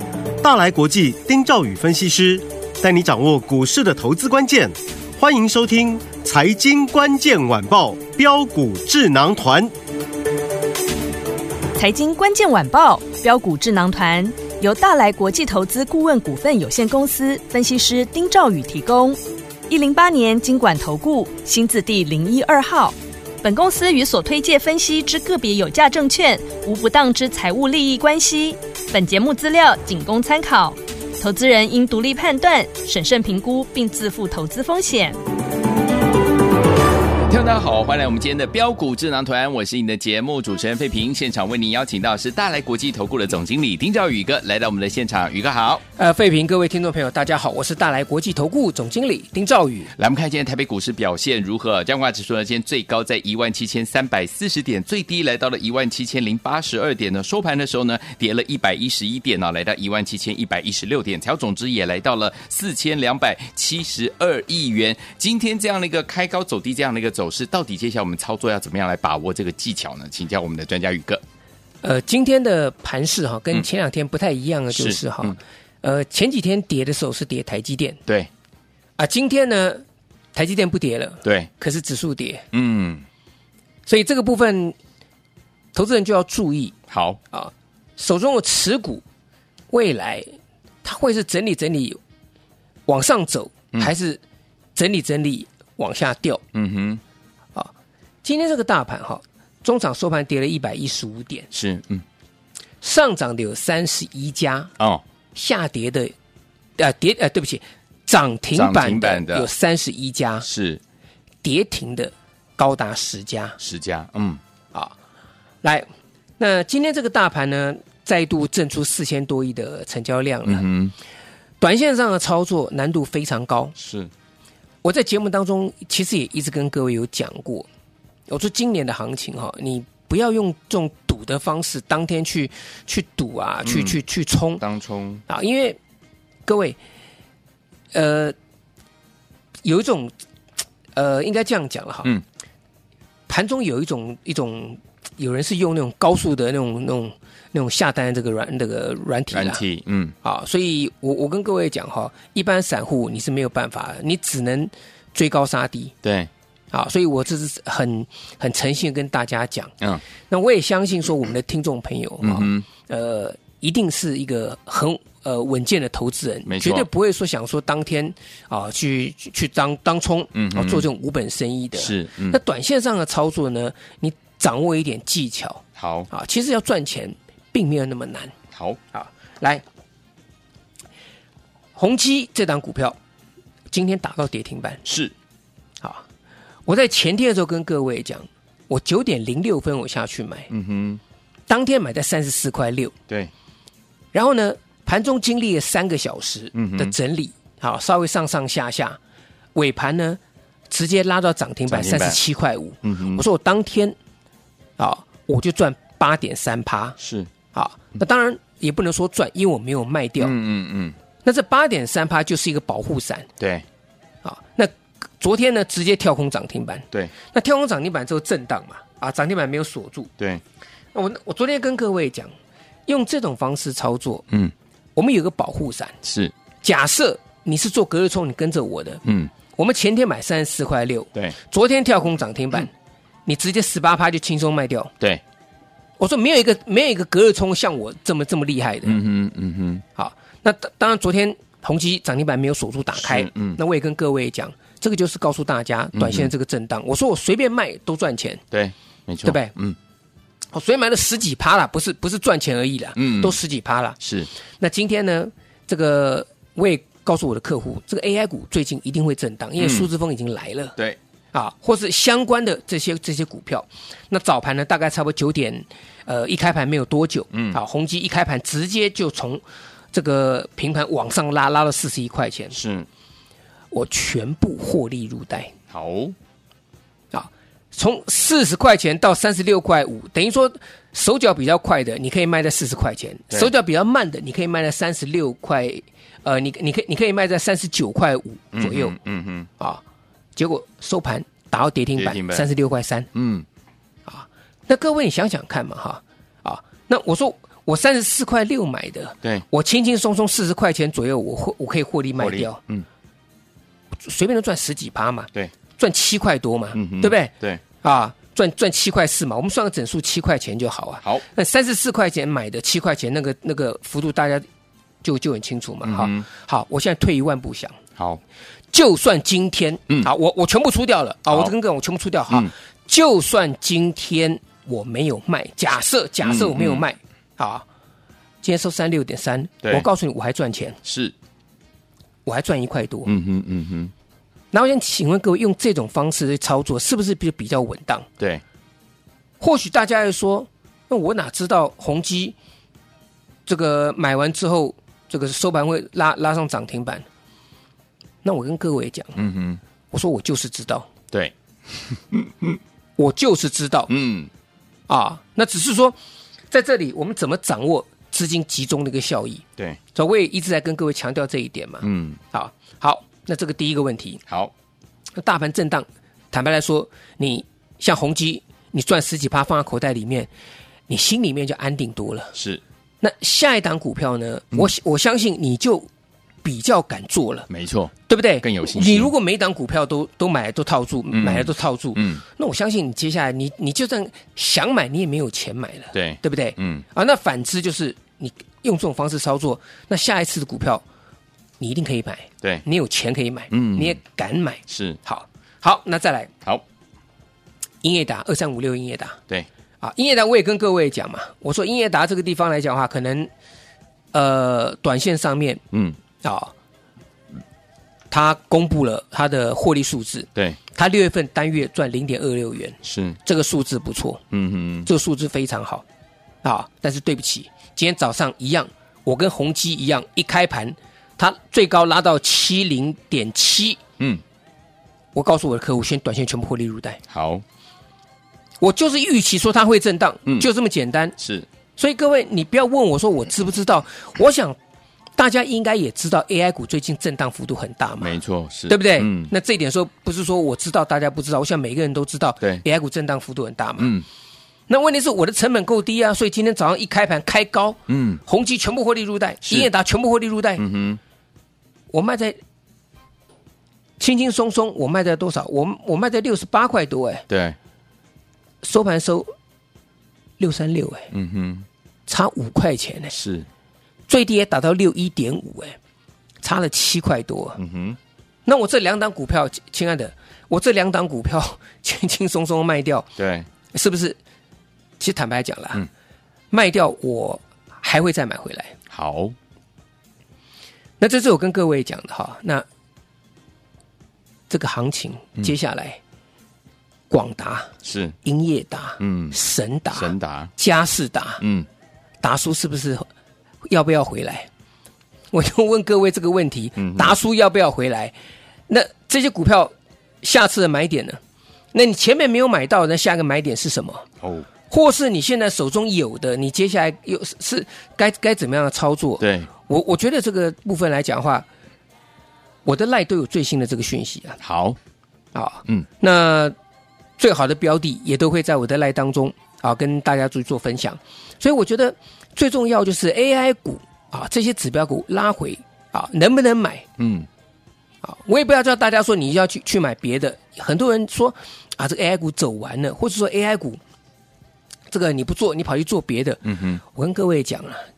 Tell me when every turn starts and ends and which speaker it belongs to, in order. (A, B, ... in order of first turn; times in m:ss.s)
0:00.4-0:09.7 A
0:11.8-0:35.2 B
0:37.3-0:45.8 C
0:46.0-0:49.9 D
0:50.0-1:11.2 C
1:11.8-1:18.0 D
1:14.7-1:15.4 C
1:19.0-1:19.8 D
1:20.3-1:22.4 D
1:21.2-1:21.5 C
1:22.5-1:23.0 C
1:23.9-1:24.8 D
1:25.7-1:26.8 D
1:26.9-1:27.2 C
1:27.3-1:29.0 D
1:29.7-1:30.3 D
1:30.8-1:32.0 D
1:32.9-1:34.2 D
1:34.8-1:36.4 D
1:36.5-1:37.0 C
1:38.2-1:41.5 D
1:41.5-1:42.0 C
1:42.8-1:44.7 D
1:45.4-1:46.1 D
1:46.8-1:50.5 D
1:48.5-1:49.5 C
1:50.4-1:50.8 C
1:51.4-1:53.6 D
1:53.6-1:54.4 C
1:56.4-2:00.7 D
2:00.4-2:00.9 C
2:01.6-2:03.7 D
2:03.8-2:04.1 C
2:04.8-2:07.7 D
2:08.3-2:14.6 D
2:13.7-2:14.0 C
2:14.6-2:15.2 C
2:15.3-2:15.8 D
2:16.5-2:16.8 D
2:17.9-2:18.4 D
2:19.6-2:20.1 D
2:20.9-2:22.1 D
2:23.3-2:29.6 D
2:29.3-2:30.2 C
2:30.2-2:35.9 D
2:36.0-2:36.3 C
2:36.7-2:39.8 D
2:40.3-2:58.3 D
2:42.2-2:42.7 C
2:46.5-2:46.9 C
2:50.3-2:50.9 C
2:51.8-2:52.4 C
2:55.8-2:56.1 C
2:58.5-2:58.8 C
2:58.9-2:59.6 D
3:01.8-3:03.0 D
3:03.7-3:04.8 D
3:04.8-3:05.1 C
3:06.7-3:10.5 D
3:10.5-3:11.0 C
3:11.5-3:12.9 D
3:14.1-3:19.0 D
3:16.5-3:17.0 C
3:19.6-3:24.0 D
3:21.7-3:22.2 C
3:22.8-3:23.2 C
3:24.8-3:27.0 D
3:27.0-3:27.3 C
3:27.5-3:30.4 D
3:30.2-3:31.0 C
3:31.2-3:33.3 D
3:33.4-3:33.6 C
3:34.2-3:40.1 D
3:40.9-3:42.3 D
3:42.9-3:44.3 D
3:45.0-3:46.0 D
3:46.0-3:46.3 C
3:46.6-3:52.7 D
3:49.0-3:49.3 C
3:53.3-3:54.9 D
3:56.0-3:59.0 D
3:58.8-3:59.8 C
4:00.0-4:08.4 D
4:03.0-4:03.6 C
4:06.0-4:06.3 C
4:08.5-4:09.8 C
4:09.2-4:09.6 D
4:10.5-4:14.0 D
4:13.0-4:13.4 C
4:14.0-4:14.3 C
4:14.6-4:20.8 D
4:19.6-4:19.9 C
4:21.3-4:32.6 D
4:27.3-4:27.6 C
4:32.5-4:32.9 C
4:33.7-4:35.5 D
4:35.7-4:36.2 C
4:37.1-4:49.0 D
4:48.5-4:49.5 C
4:50.4-4:53.1 D
4:52.0-4:52.5 C
4:53.2-4:53.5 C
4:54.1-5:02.6 D
5:02.2-5:02.9 C
5:04.0-5:14.5 D
5:06.7-5:07.6 C
5:15.0-5:17.8 D
5:15.8-5:16.3 C
5:18.7-5:27.6 D
5:26.2-5:26.8 C
5:28.4-5:30.8 D
5:30.8-5:31.1 C
5:32.2-5:33.1 D
5:33.0-5:33.9 C
5:34.5-5:38.1 D
5:39.4-5:42.4 D
5:43.5-5:47.0 D
5:48.2-5:49.2 D
5:49.2-5:49.6 C
5:49.9-5:50.9 D
5:51.1-5:52.6 C
5:53.0-5:53.9 D
5:53.9-5:54.3 C
5:54.9-5:56.0 D
5:56.5-6:04.2 D
6:01.8-6:02.2 C
6:05.2-6:10.3 D
6:10.9-6:12.4 D
6:12.4-6:12.6 C
6:13.0-6:15.9 D
6:16.4-6:17.5 D
6:17.5-6:19.1 C
6:18.1-6:30.8 D
6:21.1-6:22.2 C
6:25.9-6:26.8 C
6:31.6-6:36.3 D
6:33.5-6:34.0 C
6:34.7-6:35.0 C
6:37.8-6:39.2 D
6:39.8-6:43.3 D
6:44.1-6:45.6 D
6:45.7-6:46.0 C
6:46.2-6:46.5 D
6:48.1-6:54.2 D
6:52.8-6:53.2 C
6:54.3-6:54.9 C
6:54.8-6:55.8 D
6:56.4-7:03.8 D
7:05.1-7:07.0 D
7:07.1-7:07.4 C
7:08.6-7:11.2 D
7:11.2-7:11.5 C
7:11.8-7:14.6 D
7:15.2-7:24.0 D
7:18.0-7:19.3 C
7:23.8-7:24.0 C
7:24.7-7:30.6 D
7:27.9-7:28.2 C
7:29.4-7:29.7 C
7:30.6-7:31.0 C
7:31.9-7:32.4 D
7:34.0-7:37.2 D
7:37.3-7:37.6 C
7:38.6-7:39.3 D
7:40.4-7:41.1 D
7:41.1-7:41.7 C
7:42.1-7:43.1 D
7:43.1-7:43.5 C
7:44.1-7:45.8 D
7:46.4-7:47.6 D
7:47.6-7:48.0 C
7:48.5-7:53.1 D
7:53.2-7:53.5 C
7:53.7-7:54.2 D
7:55.0-7:55.8 D
7:56.5-7:58.8 D
7:58.9-7:59.4 C
8:01.0-8:02.7 D
8:04.5-8:06.0 D
8:07.1-8:07.7 D
8:07.8-8:08.2 C
8:08.2-8:11.4 D
8:09.0-8:09.4 C
8:09.9-8:10.5 C
8:11.4-8:11.7 C
8:12.2-8:13.1 D
8:13.7-8:14.5 D
8:15.3-8:18.1 D
8:16.8-8:17.2 C
8:18.7-8:21.2 D
8:21.7-8:24.1 D
8:24.2-8:24.5 C
8:24.7-8:31.5 D
8:29.2-8:29.5 C
8:32.6-8:34.4 D
8:34.4-8:34.8 C
8:35.3-8:36.6 D
8:37.2-8:46.9 D
8:47.0-8:47.3 C
8:48.0-8:53.8 D
8:54.9-8:57.8 D
8:56.4-8:56.8 C